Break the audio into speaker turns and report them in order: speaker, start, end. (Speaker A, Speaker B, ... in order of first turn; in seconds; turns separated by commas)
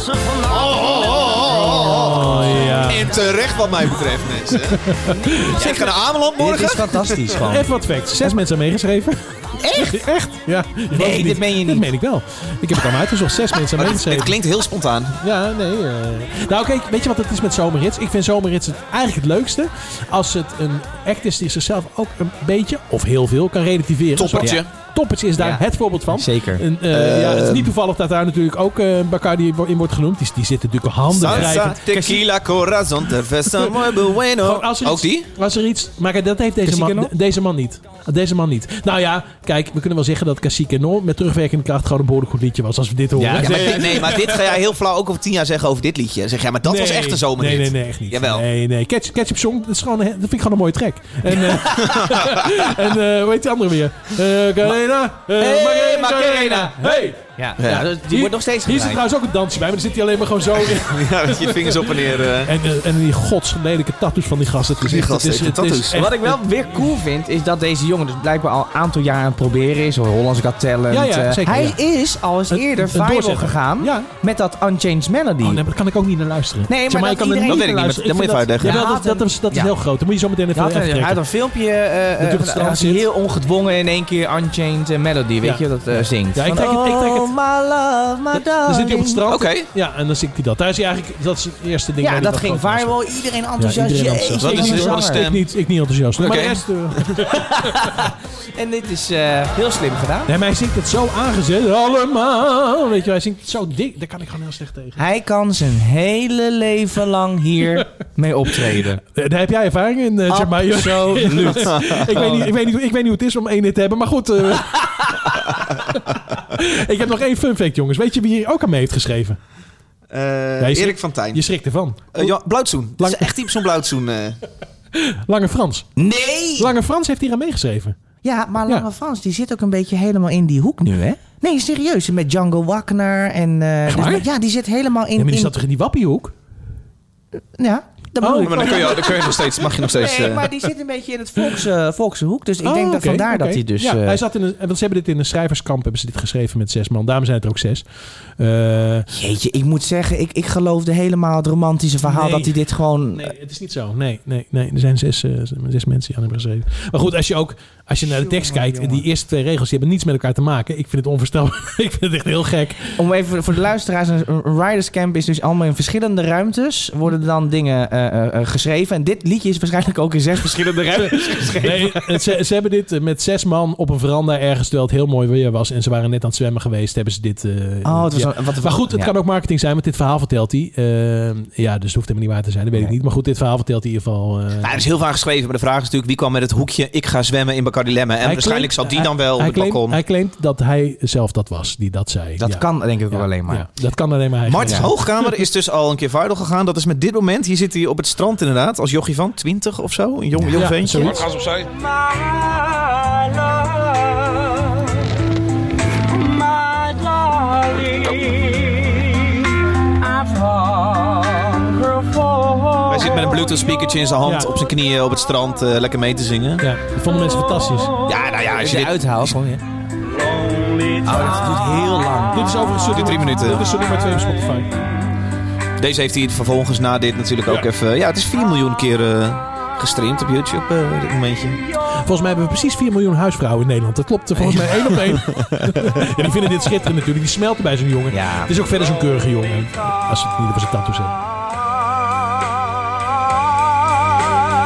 Speaker A: 0.5-4.9, Speaker B: 0.8-1.1, Speaker C: 1.6-3.1, Speaker C: 4.7-5.6, Speaker D: 5.2-7.7, Speaker A: 5.5-7.4, Speaker C: 7.4-14.4, Speaker D: 9.6-10.1, Speaker D: 10.9-11.9, Speaker A: 13.8-15.2, Speaker C: 15.2-31.8, Speaker A: 24.2-24.7, Speaker D: 25.4-26.6, Speaker A: 26.9-27.7, Speaker A: 31.1-35.3, Speaker D: 31.3-32.3, Speaker C: 34.4-44.4, Speaker D: 36.6-37.1, Speaker D: 43.2-44.2, Speaker A: 43.4-48.5, Speaker C: 46.7-57.2, Speaker A: 51.7-52.3, Speaker D: 55.4-59.0, Speaker A: 57.6-57.9, Speaker C: 58.1-66.7, Speaker A: 60.8-62.5, Speaker A: 64.8-66.0, Speaker D: 65.9-75.6, Speaker C: 70.9-71.8, Speaker C: 72.5-74.1, Speaker C: 75.4-81.2, Speaker D: 76.7-77.8, Speaker A: 77.5-78.8, Speaker D: 78.6-79.7, Speaker D: 80.5-89.3, Speaker C: 82.2-83.0, Speaker C: 86.3-87.3, Speaker C: 88.3-93.0, Speaker A: 89.3-89.7, Speaker D: 92.0-95.2, Speaker C: 93.6-97.9, Speaker A: 94.4-95.5, Speaker A: 96.2-97.2, Speaker D: 97.3-100.3, Speaker C: 100.3-105.0, Speaker D: 105.0-109.0, Speaker C: 109.2-119.4, Speaker D: 110.3-112.3, Speaker A: 120.1-121.4, Speaker C: 120.6-122.3, Speaker A: 122.1-124.4, Speaker C: 123.0-123.5, Speaker C: 125.0-125.9, Speaker D: 126.0-126.7, Speaker C: 126.6-128.0, Speaker D: 128.2-135.6, Speaker C: 133.9-134.3, Speaker C: 135.2-136.3, Speaker D: 137.6-144.2, Speaker C: 138.2-139.3, Speaker A: 138.4-140.5, Speaker C: 142.6-147.8, Speaker C: 148.4-149.1, Speaker D: 149.1-153.3, Speaker C: 152.0-152.6, Speaker C: 153.1-163.0, Speaker D: 158.1-159.1, Speaker D: 163.0-172.3, Speaker C: 171.0-184.8, Speaker D: 177.8-179.1, Speaker A: 184.6-190.0, Speaker C: 188.2-195.4, Speaker D: 192.4-193.7, Speaker A: 194.5-201.4, Speaker D: 194.6-194.9, Speaker D: 200.4-200.6, Speaker C: 200.5-201.3, Speaker B: 206.9-207.2, Speaker B: 207.8-208.4, Speaker B: 210.1-211.0, Speaker A: 212.9-216.7, Speaker C: 214.2-214.5, Speaker C: 216.6-217.9, Speaker A: 218.1-219.4, Speaker D: 218.6-219.6, Speaker B: 220.5-221.2, Speaker D: 221.0-222.5, Speaker C: 222.3-224.8, Speaker A: 222.9-223.8, Speaker A: 225.8-231.6, Speaker C: 232.0-241.2, Speaker D: 238.1-238.5